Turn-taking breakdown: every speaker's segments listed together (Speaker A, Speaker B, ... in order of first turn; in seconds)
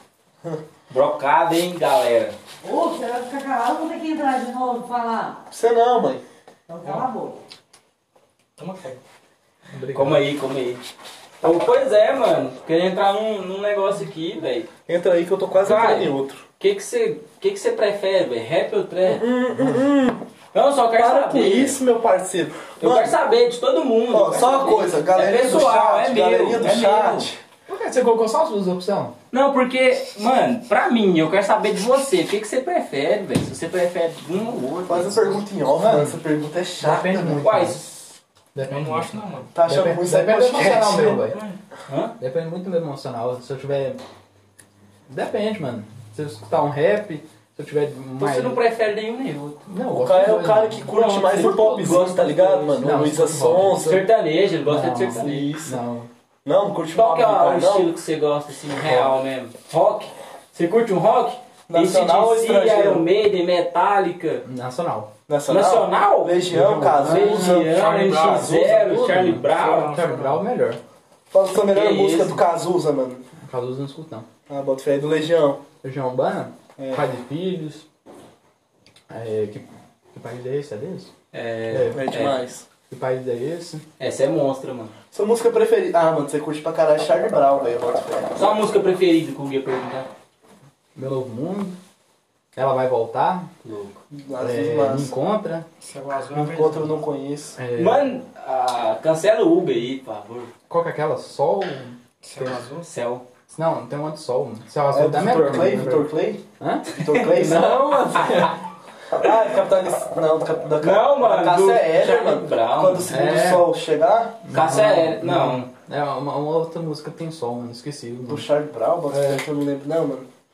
Speaker A: 0.9-2.4, 9.9-10.8, 11.4-14.7, 15.6-19.3, 20.5-21.8, 22.8-27.3, 29.3-35.4, 37.4-38.0, 41.3-42.1, 48.2-49.6, 50.9-52.4, 53.8-55.7, 56.9-64.4, 65.5-70.0, 71.7-72.4, 81.3-82.4, 84.0-84.9, 88.3-90.1, 93.6-94.0, 97.8-100.5, 102.9-103.2, 110.8-113.1, 114.5-115.7
Speaker B: 2.6-5.4, 6.7-7.4
Speaker C: 5.5-6.2, 14.9-16.4, 19.0-20.2, 20.9-23.2, 24.1-27.4, 34.9-37.5, 39.5-41.2, 49.9-54.1, 55.2-55.6, 56.5-57.9, 61.7-63.1, 65.3-67.7, 71.3-73.2, 74.5-75.6, 76.8-77.1, 81.9-82.7, 85.1-88.3, 94.1-95.1, 96.3-97.6, 104.9-108.1, 109.2-114.5, 118.3-120.3
Speaker D: 8.6-9.0, 38.7-39.5, 67.6-68.6, 69.5-70.4, 95.8-97.0, 102.2-102.9
Speaker E: 9.7-10.3, 27.7-29.1, 35.7-36.2, 36.8-37.8, 38.5-41.4, 42.2-44.0, 45.1-48.6, 49.7-53.8, 54.7-56.1, 64.5-65.1, 66.5-70.8, 73.4-74.3, 75.8-77.8, 79.1-81.1, 81.7-82.1, 82.9-83.8, 91.0-91.8, 92.6-93.5, 94.4-95.7, 97.6-98.1, 100.7-102.6, 103.5-108.6, 113.1-113.7, 114.5-118.5, 119.1-119.4